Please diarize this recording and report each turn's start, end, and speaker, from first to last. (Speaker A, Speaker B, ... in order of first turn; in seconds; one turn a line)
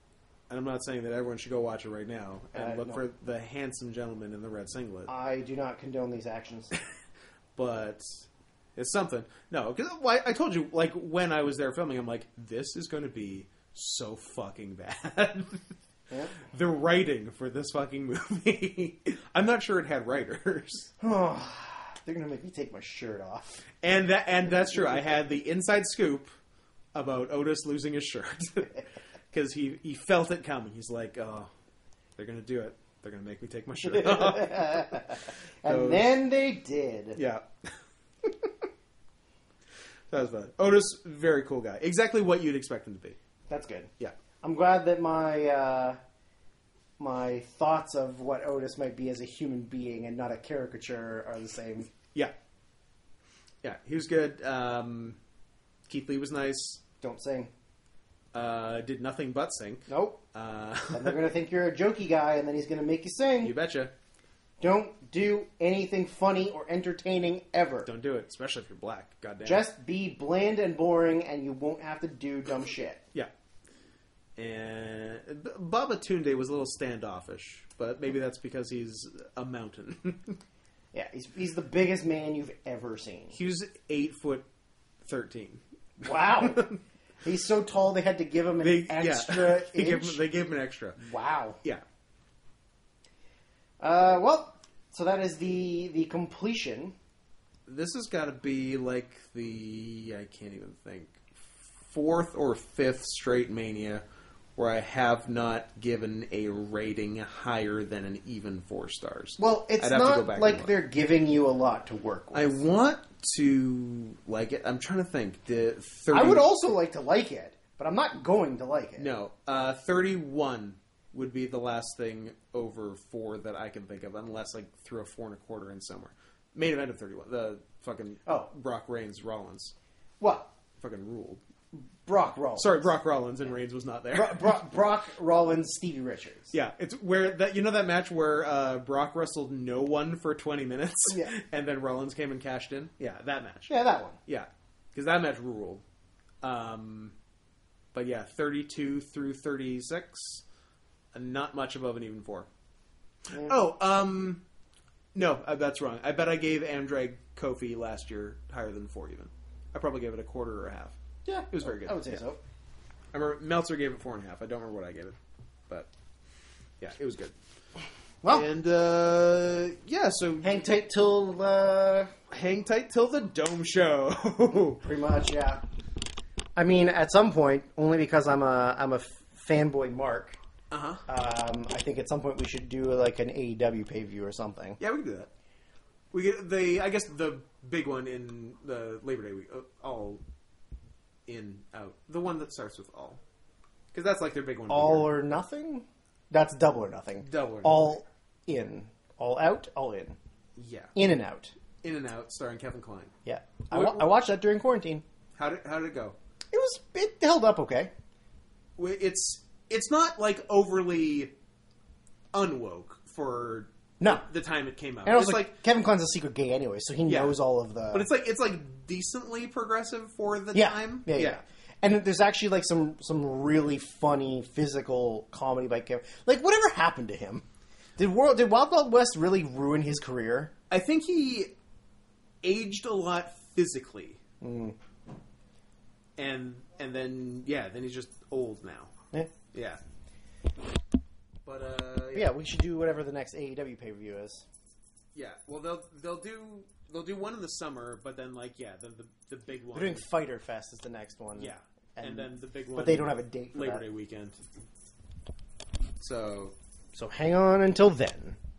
Speaker A: 0.5-5.1
Speaker B: 2.5-3.0
Speaker B: 5.1-6.8
Speaker A: 7.5-15.6
Speaker B: 16.1-16.4
Speaker A: 16.4-20.9
Speaker B: 21.0-23.6
Speaker A: 23.8-26.3
Speaker A: 26.9-31.5
Speaker A: 32.1-36.1
Speaker B: 33.7-37.2
Speaker A: 37.1-37.7
Speaker A: 40.1-43.2
Speaker B: 43.5-46.0
Speaker B: 47.0-51.9
Speaker A: 53.6-55.2
Speaker A: 55.9-56.8
Speaker B: 57.0-57.5
Speaker A: 58.3-61.2
Speaker B: 59.9-60.2
Speaker B: 60.9-63.5
Speaker A: 63.4-63.9
Speaker B: 64.6-67.9
Speaker A: 67.8-69.7
Speaker B: 69.4-73.0
Speaker A: 74.4-80.4
Speaker B: 80.9-83.4
Speaker A: 83.3-84.5
Speaker A: 85.0-86.8
Speaker B: 86.0-86.7
Speaker B: 87.2-90.2
Speaker A: 88.6-91.0
Speaker B: 91.0-91.6
Speaker B: 93.8-96.9
Speaker A: 97.7-104.0
Speaker A: 104.6-110.8
Speaker B: 109.4-112.6
Speaker A: 112.3-116.5
Speaker B: 116.1-119.1
Speaker A: 119.0-129.7
Speaker B: 130.2-130.5
Speaker A: 130.8-131.4
Speaker B: 131.7-132.9
Speaker A: 132.6-134.5
Speaker B: 134.1-136.5
Speaker A: 136.5-143.7
Speaker B: 143.7-144.2
Speaker A: 144.2-145.8
Speaker A: 146.4-147.2
Speaker A: 147.9-150.4
Speaker A: 151.1-152.5
Speaker A: 153.3-154.4
Speaker A: 155.1-161.0
Speaker B: 161.2-162.4
Speaker A: 161.5-162.2
Speaker A: 163.1-165.2
Speaker A: 166.8-167.3
Speaker A: 168.3-170.6
Speaker B: 170.4-172.1
Speaker A: 172.3-174.8
Speaker B: 174.8-175.6
Speaker B: 176.6-180.4
Speaker A: 180.7-181.0
Speaker B: 181.1-184.8
Speaker A: 184.8-185.3
Speaker A: 186.1-190.2
Speaker A: 191.3-193.2
Speaker A: 193.9-195.1
Speaker B: 194.7-200.2
Speaker A: 197.2-197.9
Speaker A: 200.6-200.9
Speaker B: 200.9-201.5
Speaker A: 201.8-203.1
Speaker B: 203.2-205.0
Speaker A: 203.7-204.1
Speaker A: 205.3-206.2
Speaker B: 206.5-207.9
Speaker A: 208.8-211.3
Speaker A: 212.3-215.5
Speaker B: 214.0-214.2
Speaker B: 215.0-218.1
Speaker A: 217.1-217.4
Speaker A: 217.9-221.4
Speaker B: 220.5-227.4
Speaker B: 228.0-230.5
Speaker A: 230.7-231.5
Speaker A: 232.4-234.2
Speaker B: 234.4-234.8
Speaker A: 236.2-238.9
Speaker A: 239.5-239.8
Speaker A: 241.4-242.3
Speaker B: 242.1-244.4
Speaker A: 245.1-250.1
Speaker B: 249.7-253.8
Speaker A: 251.3-254.4
Speaker A: 256.0-256.5
Speaker B: 256.9-258.4